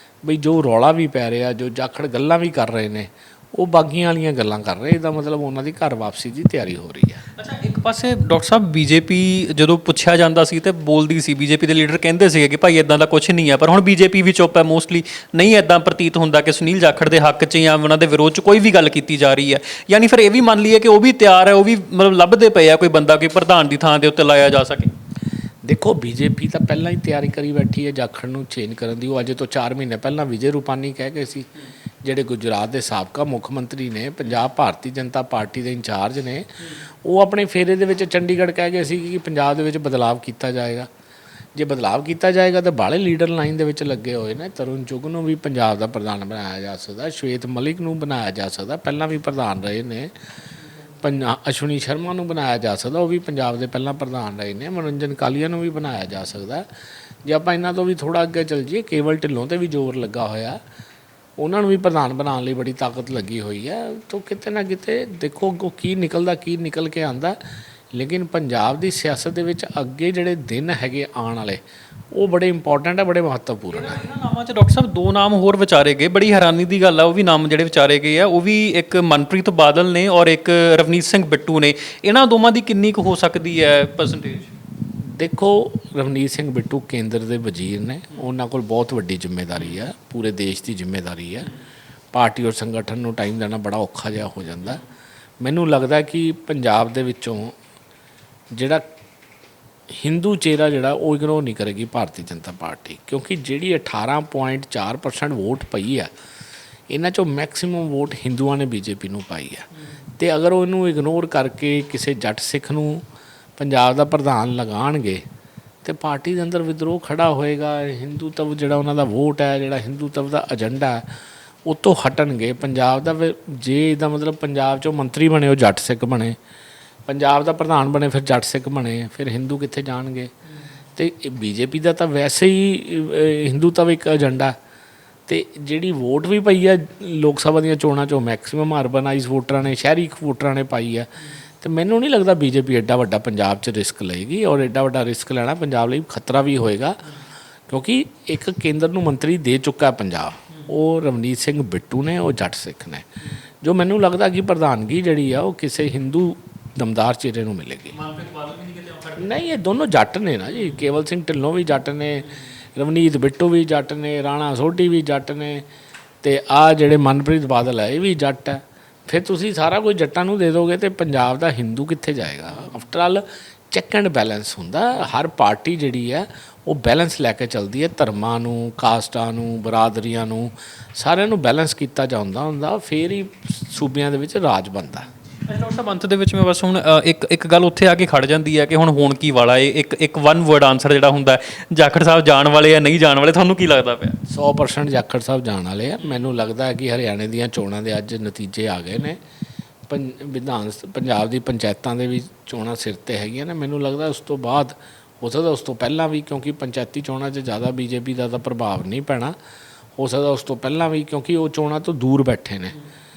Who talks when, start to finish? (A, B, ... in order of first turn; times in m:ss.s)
0:00.2-0:07.2 A
0:07.4-0:24.9 B
0:25.6-0:31.5 A
0:32.0-0:40.9 A
0:41.6-0:50.1 A
0:51.0-0:56.7 A
0:57.2-1:00.6 A
1:01.4-1:07.4 A
1:07.9-1:14.0 A
1:13.7-1:24.6 B
1:25.0-1:31.5 A
1:32.1-1:34.8 A
1:35.4-1:37.6 A
1:38.5-1:38.8 A
1:39.9-1:46.1 A
1:46.9-1:53.0 A
1:53.6-1:55.2 A
1:55.8-2:01.1 A
2:01.6-2:06.4 A
2:07.1-2:10.3 A
2:11.0-2:14.6 A
2:15.3-2:27.1 A
2:27.7-2:33.1 A
2:33.6-2:38.0 A
2:37.9-2:39.4 B
2:39.2-2:45.7 A
2:46.2-3:05.1 A
3:05.5-3:14.2 B
3:14.3-3:19.2 A
3:19.9-3:29.4 A
3:30.0-3:32.8 A